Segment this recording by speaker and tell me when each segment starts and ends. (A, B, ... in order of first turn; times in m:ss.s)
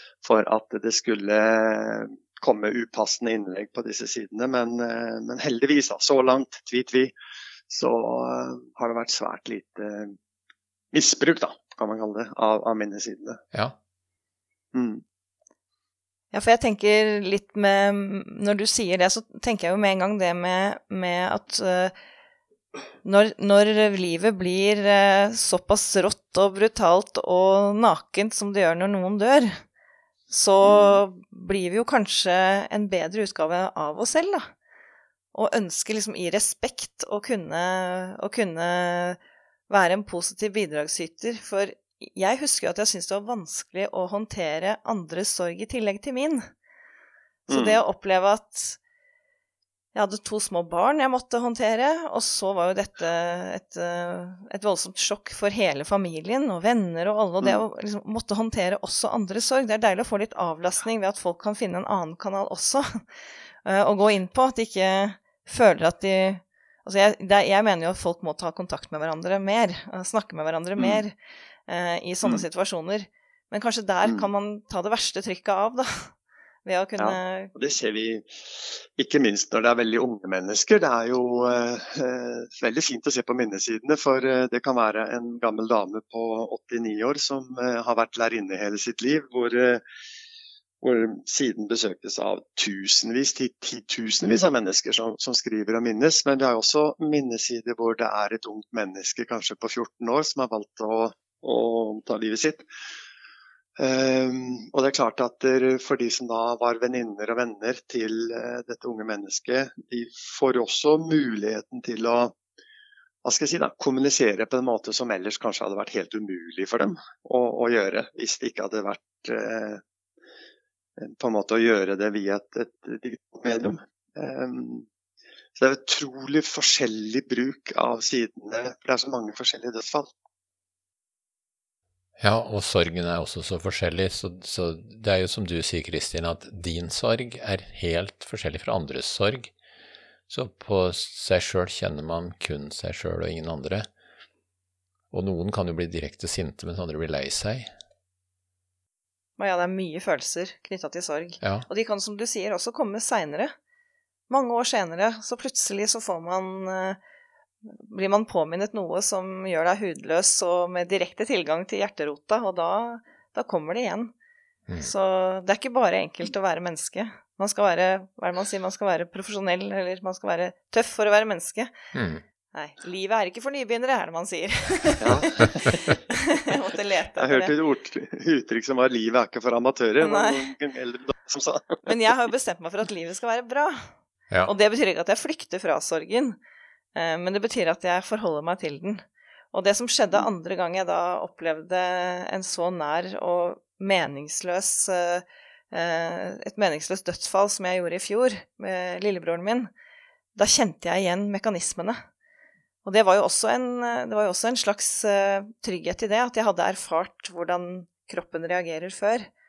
0:00.2-0:07.1 A
0:07.7-0:10.2 A
0:10.9-0:13.4 A
0:14.7-0:15.0 A
0:16.3-0:21.9 B
0:23.0-0:29.6 B
0:30.3-0:34.5 B
0:30.6-0:31.0 A
0:35.3-0:46.4 B
0:47.5-0:47.8 A
0:47.5-0:48.8 B
0:49.9-1:03.0 B
1:03.6-1:11.2 B
1:10.8-1:11.0 A
1:11.7-1:16.1 B
1:14.0-1:14.3 A
1:16.6-1:17.5 B
1:17.0-1:29.8 A
1:30.8-1:42.6 A
1:43.8-1:52.3 A
1:53.2-1:59.8 A
2:01.0-2:04.9 A
2:05.6-2:10.1 A
2:12.2-2:19.5 C
2:20.3-2:23.9 C
2:25.1-2:27.7 C
2:29.4-2:33.5 B
2:34.3-2:37.0 B
2:37.6-2:44.1 B
2:44.8-2:51.7 B
2:51.9-2:52.2 C
2:52.5-2:57.5 B
2:55.0-2:56.0 A
2:57.2-3:01.9 A
3:00.0-3:00.4 B
3:01.8-3:03.9 B
3:04.4-3:06.4 B
3:06.9-3:19.7 B
3:20.4-3:22.0 B
3:22.8-3:29.3 B